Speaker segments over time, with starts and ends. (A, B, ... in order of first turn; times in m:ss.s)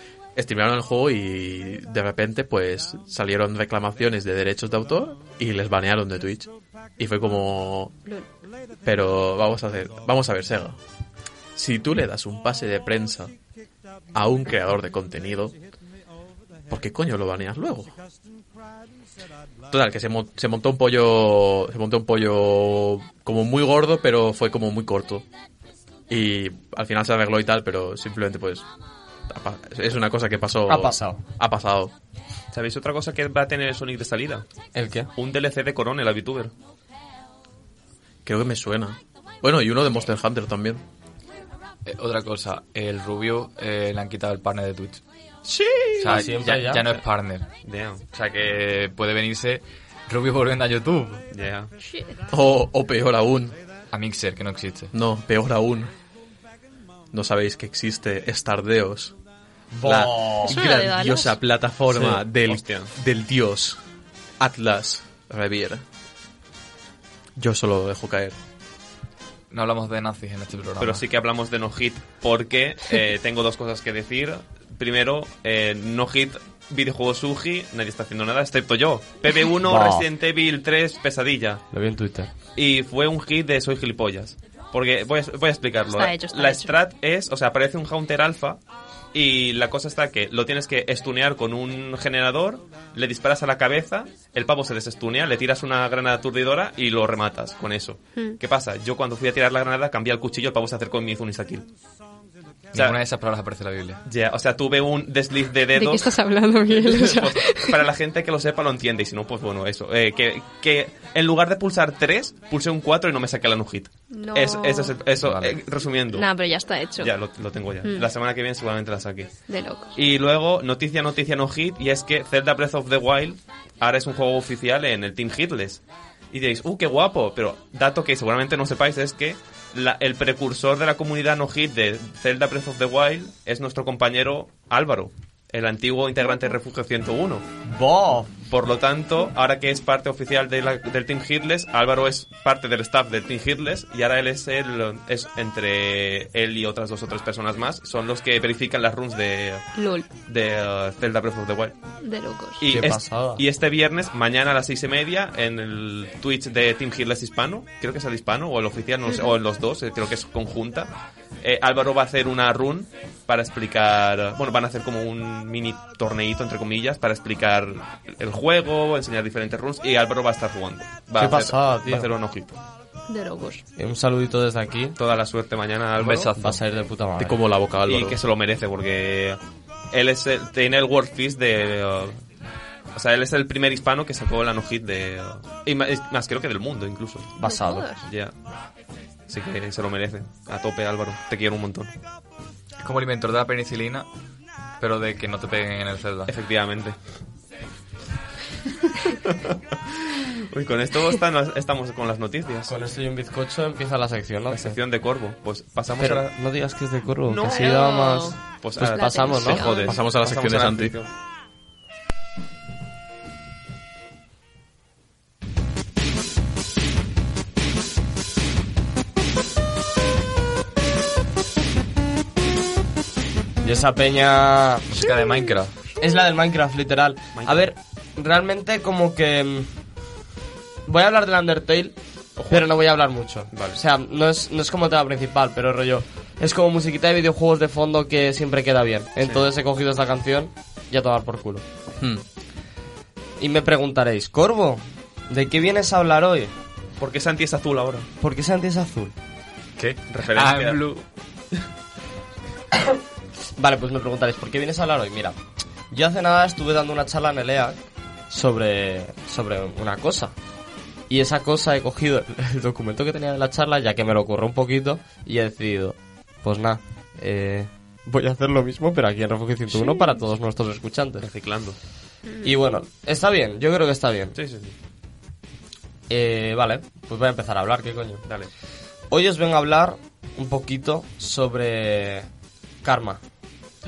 0:00.4-0:07.9 A
0:08.8-0:10.8 A
0:11.6-0:13.3 A
0:14.1-0:15.6 A
0:16.7-0:17.9 A
0:19.7-0:25.3 A
0:26.1-0:28.6 A
0:29.3-0:31.9 A
0:30.7-0:31.2 B
0:32.5-0:34.5 C
0:34.8-0:35.1 B
0:35.2-0:36.5 C
0:38.2-0:40.8 A
0:41.9-0:45.0 D
0:45.5-0:47.0 B
0:46.0-0:47.5 D
0:47.6-0:48.0 C
0:48.1-0:51.2 D
0:51.3-0:51.7 C
0:51.8-0:52.2 E
0:52.3-0:53.6 A
0:53.9-0:54.9 D
0:54.9-0:55.9 A
0:57.1-0:59.1 A
0:59.7-1:00.6 B
0:59.8-1:03.8 A
1:00.4-1:01.4 E
1:02.0-1:02.9 C
1:04.4-1:05.8 A
1:07.4-1:08.4 A
1:09.5-1:11.0 D
1:10.8-1:21.6 C
1:19.6-1:20.1 B
1:21.7-1:22.3 B
1:22.6-1:28.6 C
1:25.9-1:26.8 E
1:29.1-1:41.7 C
1:42.7-1:44.0 D
1:44.0-1:56.3 C
1:45.7-1:47.8 E
1:54.1-1:55.1 E
1:55.2-1:55.6 D
1:56.1-1:57.1 E
1:57.0-1:59.3 C
1:59.5-2:00.0 E
1:59.9-2:17.5 C
2:17.6-2:18.3 B
2:18.5-2:29.7 C
2:29.8-2:30.1 E
2:30.2-2:31.8 C
2:32.0-2:32.7 E
2:32.6-2:52.6 C
2:32.7-2:33.4 B
2:51.2-2:52.1 B
2:53.1-2:53.6 E
2:53.8-2:55.0 B
2:55.0-2:56.4 C
2:56.0-2:56.6 D
2:56.4-2:57.4 B
2:57.2-2:58.2 A
2:57.9-2:59.4 C
2:59.9-3:02.2 C
3:02.9-3:07.4 C
3:07.4-3:07.9 B
3:07.4-3:08.1 E
3:08.0-3:08.3 C
3:09.3-3:11.9 C
3:12.8-3:14.1 D
3:14.8-3:16.3 D
3:16.3-3:17.0 C
3:19.9-3:22.7 C
3:22.7-3:24.8 B
3:24.5-3:26.3 C
3:26.0-3:29.6 B
3:27.3-3:27.7 C
3:27.4-3:30.0 E
3:28.6-3:31.1 C
3:29.4-3:31.0 A
3:43.6-3:45.1 B
3:44.9-3:45.8 D
3:46.0-3:49.7 B
3:47.4-3:47.6 C
3:50.9-3:52.0 B
3:52.4-3:52.7 C
3:52.5-4:01.6 B
3:53.5-3:53.8 C
3:59.2-3:59.5 C
4:02.0-4:02.2 A
4:03.4-4:06.5 B
4:07.0-4:08.1 C
4:08.2-4:09.1 B
4:09.8-4:11.0 D
4:10.1-4:10.8 C
4:13.6-4:15.4 B
4:15.9-4:17.8 B
4:18.3-4:20.3 B
4:21.1-4:31.3 B
4:31.2-4:31.8 C
4:32.3-4:32.6 E
4:32.4-4:34.4 B
4:34.4-4:34.7 C
4:36.1-4:38.2 B
4:39.1-4:42.3 B
4:42.8-4:43.2 B